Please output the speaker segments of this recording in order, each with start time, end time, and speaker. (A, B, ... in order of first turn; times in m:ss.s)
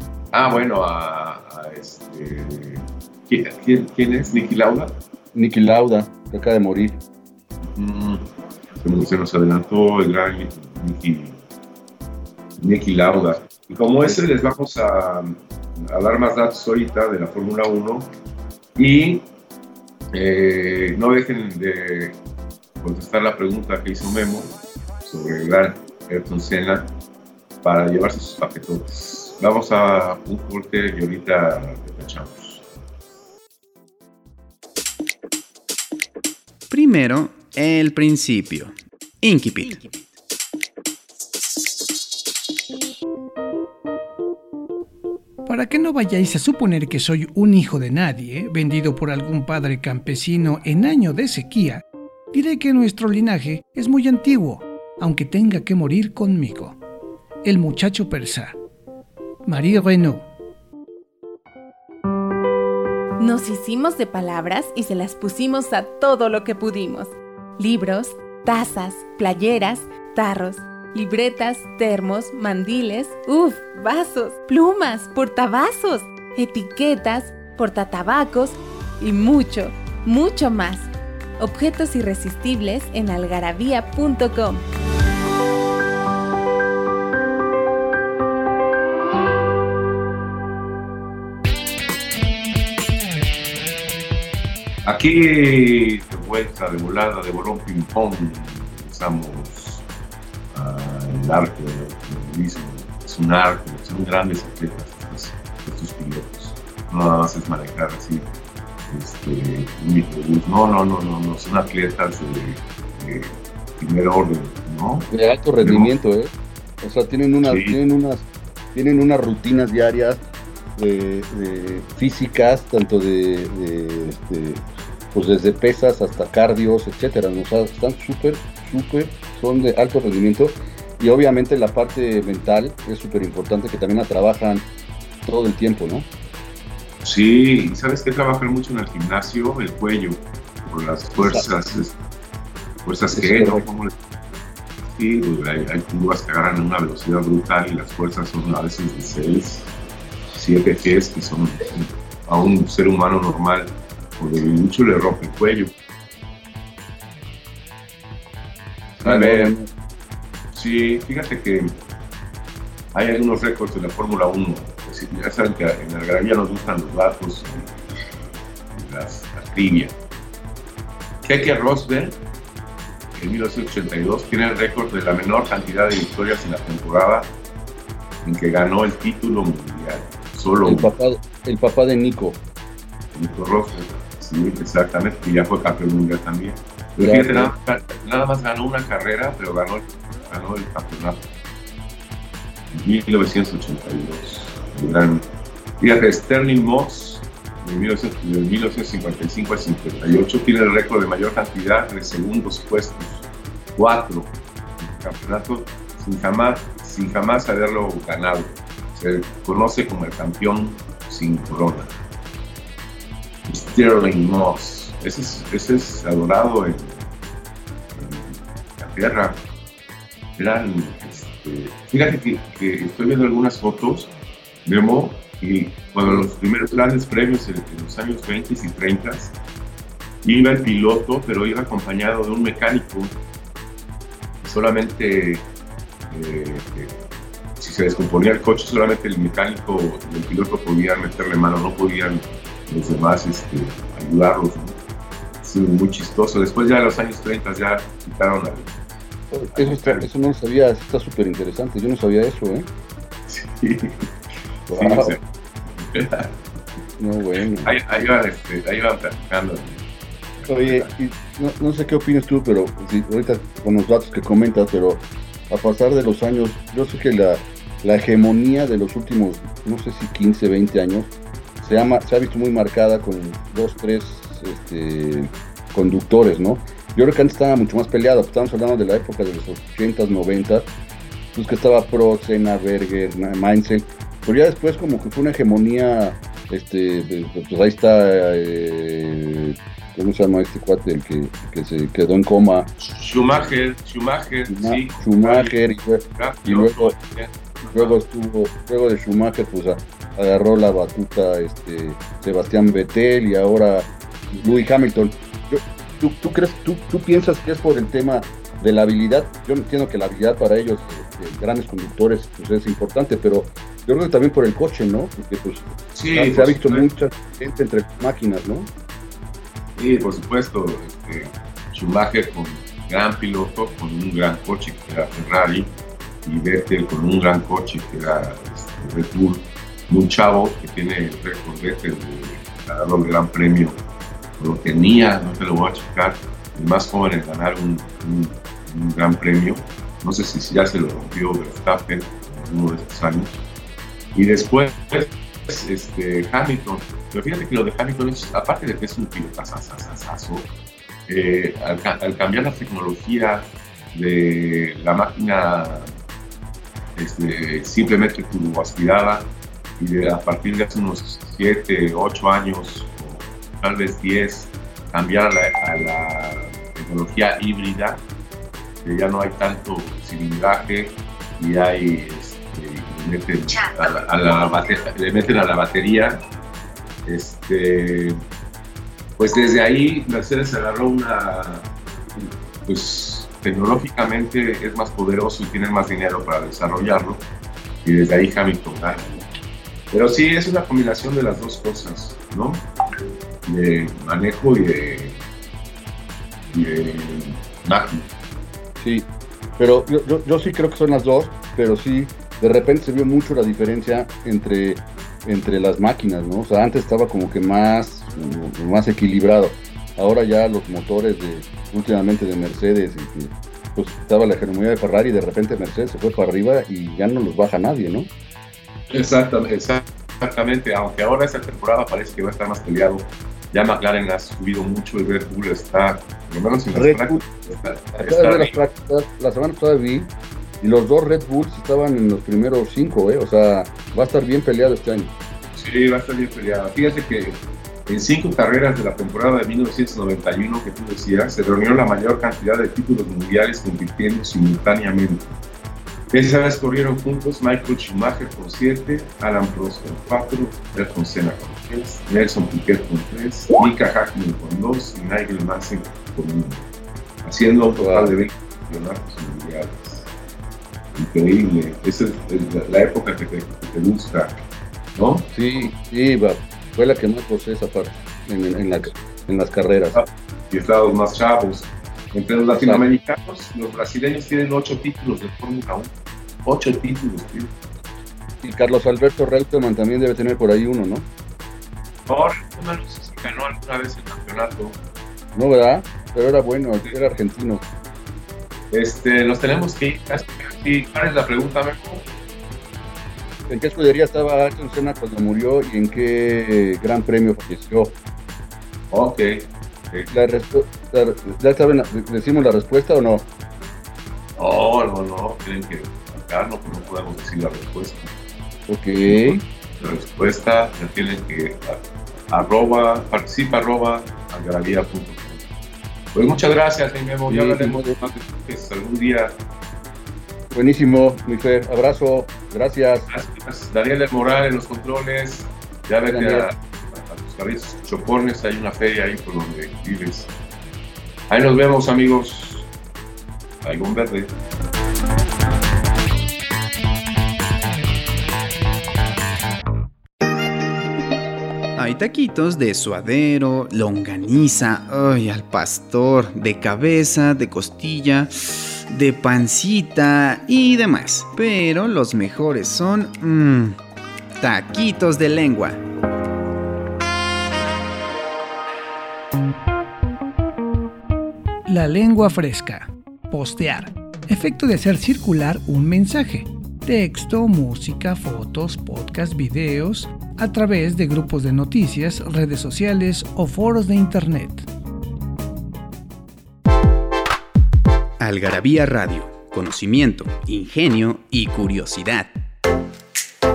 0:00.3-0:04.9 A
0:05.3-0:07.0 B
0:07.6-0:08.2 A
0:08.8-0:11.4 A
0:12.6-0:18.1 A
0:18.8-0:19.2 A
0:20.1-0:22.2 A
0:22.8-0:24.5 A
0:25.0-0:26.9 A
0:27.6-0:32.6 A
0:36.7-0:40.0 C
0:45.4-0:56.8 D
0:57.4-0:58.6 D
0:59.4-1:00.3 D
1:03.2-1:24.6 E
1:34.8-1:39.8 A
1:40.5-1:48.2 A
1:48.9-1:55.9 A
1:55.1-2:00.2 B
1:57.4-1:57.8 A
2:00.8-2:14.7 B
2:15.2-2:16.1 B
2:17.0-2:22.0 A
2:21.2-2:21.5 B
2:22.8-2:23.9 A
2:23.1-2:23.6 B
2:24.8-2:29.7 A
2:30.3-2:35.7 A
2:39.0-2:39.5 A
2:39.0-2:39.7 B
2:40.5-2:41.7 A
2:42.9-2:47.8 A
2:48.7-2:49.9 A
2:51.2-2:52.2 A
2:53.1-2:57.3 A
2:58.2-3:00.9 A
3:00.6-3:02.4 B
3:03.1-3:11.2 A
3:07.0-3:07.5 B
3:12.7-3:15.2 A
3:15.8-3:31.9 A
3:33.5-3:37.0 A
3:37.9-3:39.4 A
3:40.4-3:44.1 A
3:44.6-3:49.3 A
3:50.2-3:53.1 A
3:54.4-3:55.4 A
3:56.1-3:56.9 A
3:57.6-4:04.8 A
4:05.4-4:08.7 A
4:09.3-4:12.7 B
4:09.5-4:10.0 A
4:13.3-4:14.1 A
4:14.7-4:15.2 A
4:14.7-4:15.2 B
4:15.8-4:16.3 A
4:17.0-4:17.8 B
4:17.6-4:19.8 A
4:20.4-4:20.9 A
4:20.5-4:40.7 B
4:41.3-4:52.7 B
4:52.8-4:55.6 A
4:54.5-4:57.0 B
4:56.2-4:57.9 A
4:57.7-5:18.7 B
5:15.9-5:16.8 A
5:19.8-5:25.7 A
5:26.2-5:33.8 A
5:34.4-5:43.4 A
5:44.1-5:50.5 A
5:51.1-5:55.9 A
5:57.0-6:08.0 A
6:08.8-6:16.2 A
6:17.0-6:18.2 A
6:19.2-6:21.7 A
6:22.6-6:27.2 A
6:27.8-6:29.2 A
6:29.9-6:32.6 A
6:33.4-6:35.2 A
6:36.5-6:38.0 A
6:38.8-6:58.1 B
6:58.9-7:08.6 A
7:06.7-7:07.2 B
7:08.0-7:15.1 B
7:15.5-7:25.3 A
7:26.1-7:36.6 A
7:37.2-7:40.1 A
7:37.8-7:38.2 B
7:40.9-7:44.3 A
7:45.0-7:45.7 A
7:45.3-7:50.0 B
7:49.9-7:55.9 A
7:52.5-7:52.8 B
7:56.4-7:57.5 A
7:58.4-8:01.1 B
8:02.1-8:04.8 A
8:05.3-8:07.6 B
8:08.7-8:12.1 A
8:13.5-8:18.0 B
8:18.9-8:20.1 A
8:20.1-8:23.3 B
8:24.4-8:28.1 A
8:28.7-8:29.4 B
8:29.0-8:35.4 A
8:36.1-8:39.3 A
8:37.3-8:38.0 B
8:40.5-8:43.1 B
8:43.1-8:50.3 A
8:46.1-8:46.5 B
8:51.3-8:52.7 A
8:53.6-8:54.3 A
9:01.8-9:08.3 C
9:08.9-9:13.8 C
9:14.4-9:15.8 C
9:21.6-9:34.7 D
9:38.2-9:42.3 C